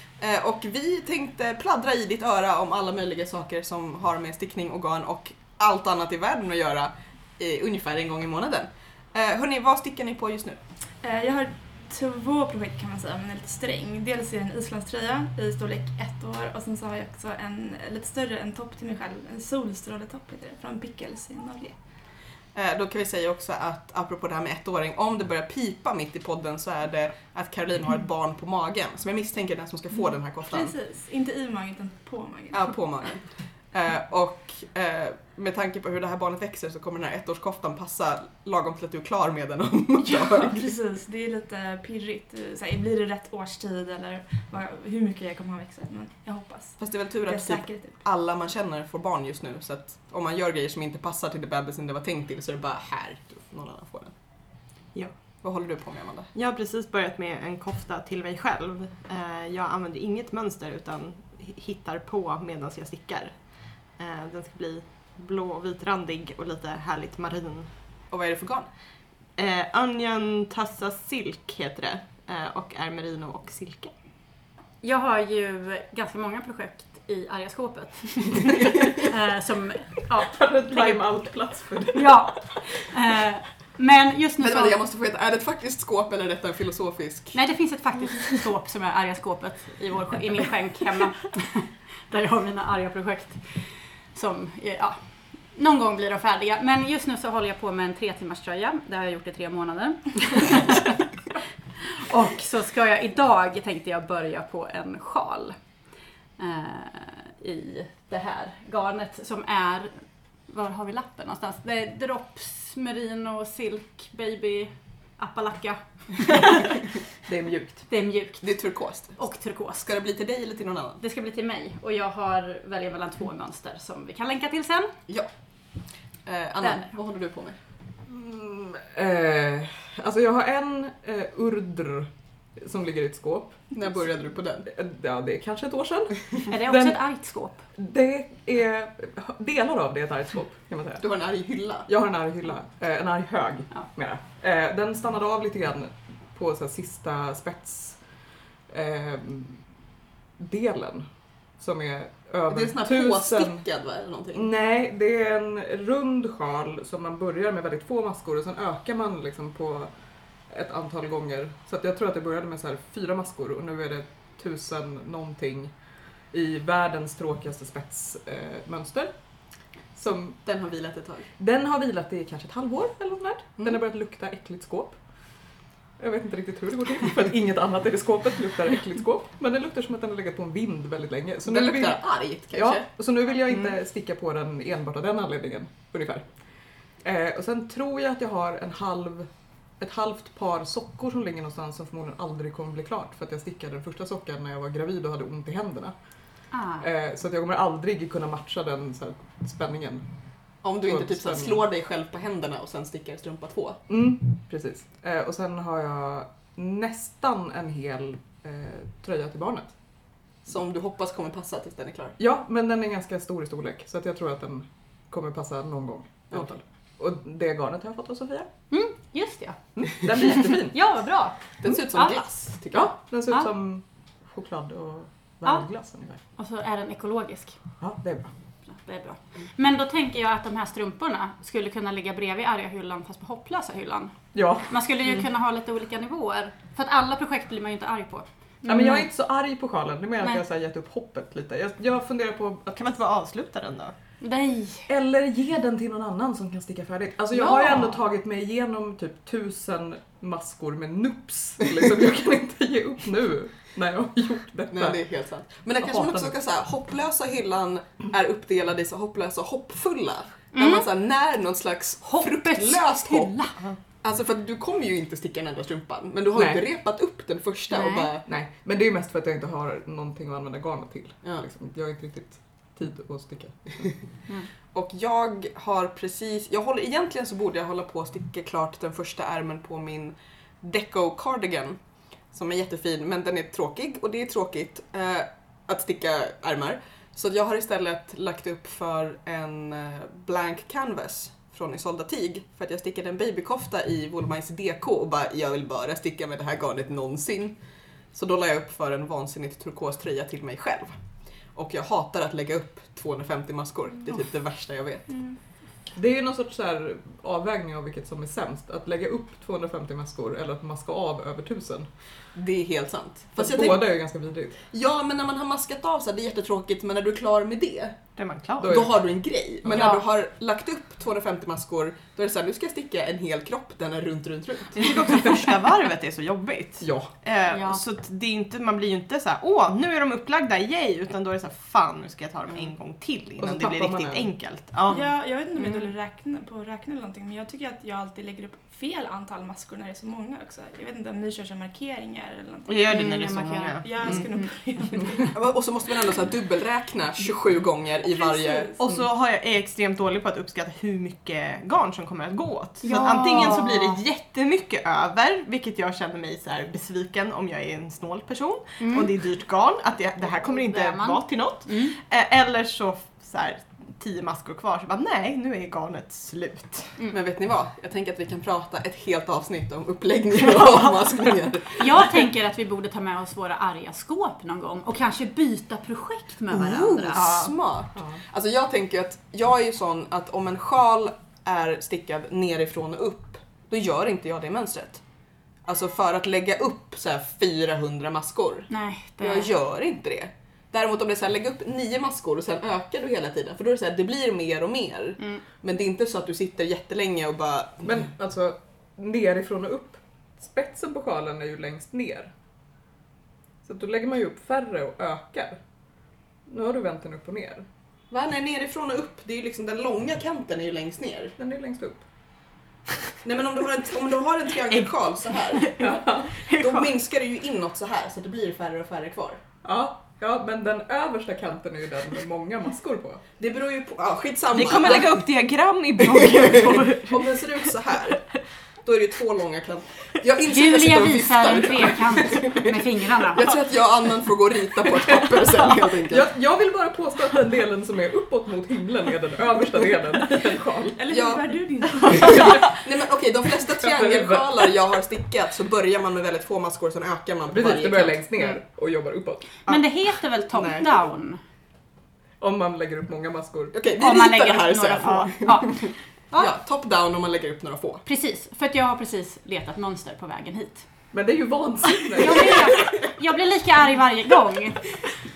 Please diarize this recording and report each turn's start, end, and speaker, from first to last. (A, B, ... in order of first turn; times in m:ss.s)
0:00.2-0:10.6 A
0:11.0-0:21.8 B
0:22.5-0:30.7 A
0:30.5-0:32.7 B
0:32.5-0:40.8 A
0:40.0-0:48.0 B
0:46.8-0:54.1 A
0:55.4-0:56.3 A
0:56.3-1:07.7 C
1:08.1-1:08.7 A
1:09.4-1:13.9 C
1:14.8-1:21.0 D
1:20.2-1:22.4 E
1:21.9-1:24.8 D
1:24.4-1:27.4 A
1:27.3-1:41.1 D
1:41.8-1:45.6 D
1:46.4-1:56.8 D
1:57.3-1:57.8 E
1:57.9-1:58.6 D
1:58.4-1:59.2 A
1:59.1-1:59.9 D
1:59.8-2:01.0 A
2:01.0-2:04.9 D
2:06.2-2:07.6 A
2:06.6-2:06.9 D
2:08.0-2:13.6 E
2:13.7-2:14.7 A
2:14.6-2:17.0 E
2:16.4-2:17.6 D
2:17.8-2:21.0 E
2:21.0-2:21.9 A
2:21.9-2:28.0 E
2:28.7-2:29.6 E
2:30.4-2:31.0 E
2:31.6-2:33.6 E
2:32.5-2:34.5 A
2:34.3-2:39.9 E
2:40.5-2:45.7 E
2:46.3-2:49.1 E
2:49.9-2:50.4 E
2:50.4-2:51.3 A
2:51.4-2:55.0 E
2:56.0-3:02.0 E
3:01.4-3:02.9 A
3:02.5-3:06.2 E
3:07.0-3:09.3 E
3:09.8-3:15.9 E
3:16.5-3:16.8 D
3:16.8-3:20.0 E
3:20.6-3:23.8 A
3:20.8-3:21.6 E
3:23.9-3:29.7 E
3:30.4-3:32.2 A
3:32.2-3:38.5 E
3:38.7-3:39.6 D
3:39.8-3:40.8 E
3:40.7-3:42.2 D
3:41.6-3:42.9 A
3:42.7-3:46.2 E
3:46.4-3:47.6 D
3:47.8-3:48.3 E
3:48.7-3:54.1 D
3:54.3-3:54.7 E
3:54.7-3:59.0 D
3:58.6-4:02.9 E
4:02.7-4:03.9 C
4:04.2-4:04.9 D
4:04.9-4:15.0 E
4:07.3-4:08.0 D
4:14.7-4:23.4 A
4:15.8-4:16.3 E
4:20.5-4:20.9 D
4:22.0-4:23.6 D
4:24.0-4:28.2 A
4:26.4-4:26.6 E
4:27.7-4:28.1 D
4:28.2-4:33.9 E
4:34.7-4:41.8 A
4:42.3-4:57.6 A
4:58.1-5:01.0 A
5:01.5-5:05.2 A
5:05.9-5:11.9 E
5:12.3-5:13.9 A
5:13.4-5:14.6 E
5:14.7-5:18.0 A
5:18.2-5:18.8 C
5:18.6-5:18.9 E
5:18.6-5:25.0 A
5:19.6-5:20.0 E
5:19.8-5:20.0 D
5:24.7-5:35.1 C
5:26.8-5:27.1 E
5:27.5-5:27.8 D
5:33.4-5:34.3 E
5:34.9-5:43.0 B
5:35.6-5:35.9 D
5:42.6-5:44.2 C
5:42.9-5:44.5 D
5:43.8-5:45.4 B
5:45.3-5:48.7 A
5:48.0-5:48.8 B
5:48.8-6:07.0 C
5:52.8-5:54.0 D
5:58.8-5:59.1 D
6:00.5-6:02.0 D
6:07.1-6:11.9 A
6:11.8-6:17.5 D
6:16.5-6:25.0 A
6:25.6-6:37.9 A
6:28.7-6:29.5 D
6:37.8-6:42.3 E
6:43.6-6:45.6 E
6:46.5-6:47.6 E
6:48.1-6:51.4 A
6:51.4-6:52.0 E
6:53.2-6:55.9 A
6:55.5-6:56.9 C
6:55.8-6:56.4 E
6:56.5-6:59.4 A
6:59.6-7:03.2 E
7:03.4-7:05.2 A
7:04.5-7:07.5 C
7:06.2-7:08.2 A
7:08.8-7:16.3 A
7:10.4-7:13.4 D
7:16.0-7:21.0 E
7:21.0-7:22.6 B
7:21.1-7:28.2 A
7:23.8-7:24.5 E
7:27.5-7:29.6 E
7:29.7-7:31.4 D
7:30.5-7:30.9 A
7:32.4-7:33.8 E
7:33.7-7:38.0 A
7:34.0-7:36.5 D
7:38.0-7:40.9 D
7:41.1-7:43.0 E
7:42.2-7:44.9 D